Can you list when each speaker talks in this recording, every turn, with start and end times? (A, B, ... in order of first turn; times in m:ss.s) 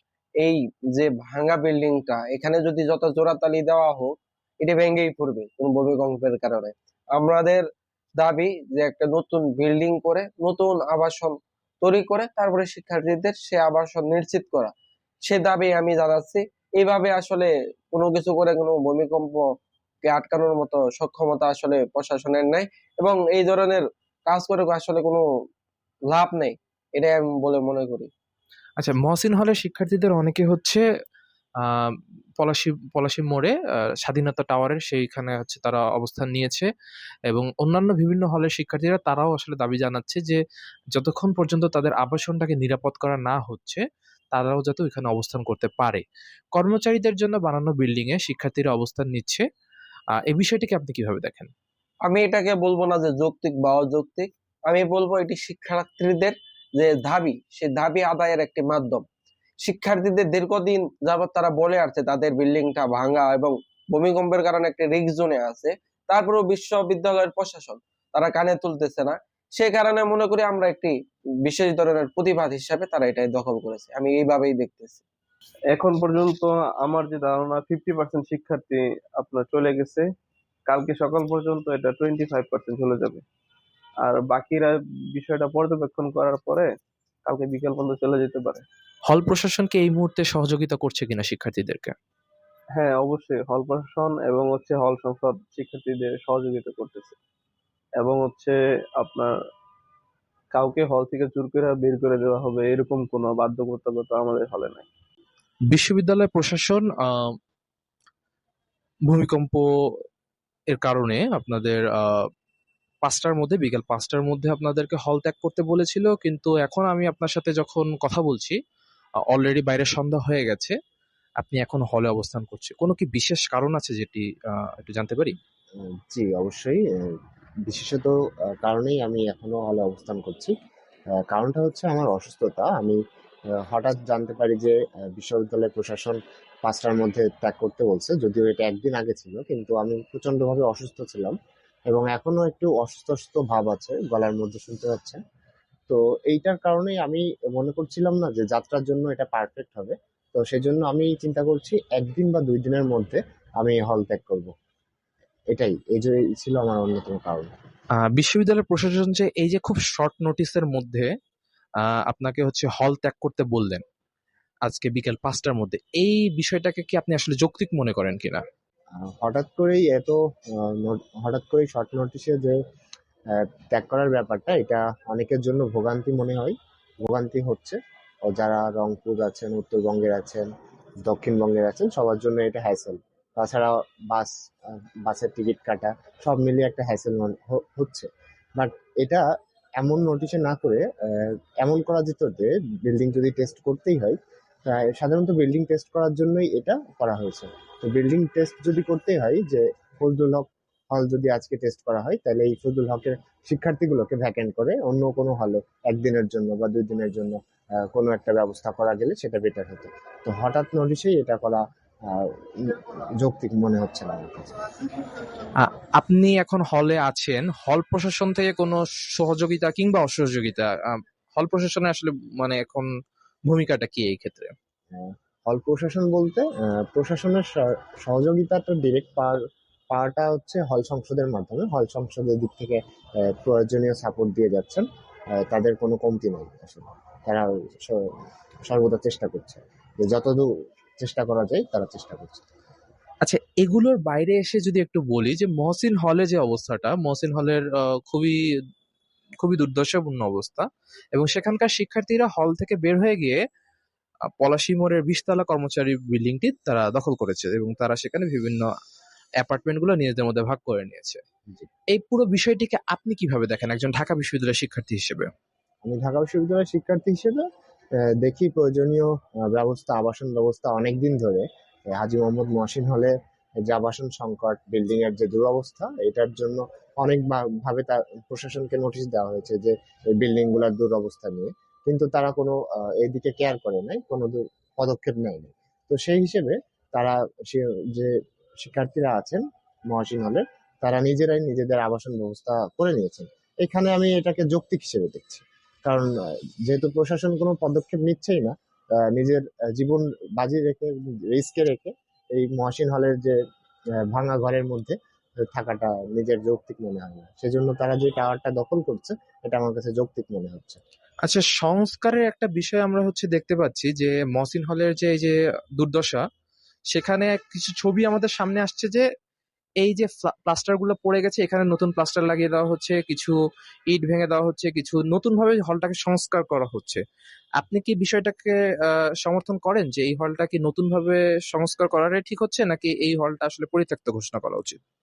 0:00.4-0:07.6 A
0:08.2-0:14.7 A
0:15.3-0:19.4 A
0:20.0-0:25.2 A
0:26.1-0:28.1 A
0:28.8-0:30.8 B
0:31.6-0:36.7 B
0:37.3-0:40.4 B
0:40.9-0:43.8 B
0:44.3-0:46.0 B
0:46.6-0:49.4 B
0:50.2-0:51.5 B
0:52.1-0:59.0 A
0:59.6-1:10.9 A
1:11.4-1:15.0 A
1:15.7-1:20.0 C
1:20.7-1:23.2 C
1:24.0-1:26.7 C
1:27.2-1:28.6 C
1:29.1-1:31.9 B
1:32.7-1:37.2 C
1:38.0-1:39.4 C
1:40.5-1:44.9 C
1:45.7-1:47.4 B
1:49.1-1:49.6 B
1:50.7-1:52.2 B
1:53.0-1:58.6 B
1:59.3-2:00.8 B
2:01.4-2:05.4 B
2:05.8-2:10.5 D
2:11.3-2:13.0 D
2:13.5-2:21.3 D
2:21.9-2:25.2 D
2:25.9-2:34.5 D
2:35.5-2:37.5 D
2:38.1-2:41.1 B
2:41.8-2:43.8 B
2:44.6-2:48.4 B
2:49.0-2:52.6 D
2:53.3-3:00.5 D
3:01.0-3:04.3 D
3:05.0-3:09.2 D
3:09.8-3:34.7 D
3:35.6-3:42.9 B
3:43.5-3:44.5 B
3:44.9-3:49.4 D
3:49.9-3:54.8 D
3:55.4-3:58.0 D
3:58.7-4:00.5 D
4:01.0-4:02.4 D
4:03.2-4:08.3 B
4:09.4-4:13.4 B
4:14.4-4:18.7 B
4:19.4-4:21.2 B
4:21.9-4:25.3 B
4:25.8-4:27.4 D
4:28.0-4:33.1 D
4:33.7-4:56.1 D
4:56.6-5:03.4 D
5:04.1-5:10.8 D
5:11.2-5:16.2 B
5:16.9-5:19.0 B
5:19.8-5:23.4 B
5:23.9-5:27.0 B
5:27.6-5:34.8 B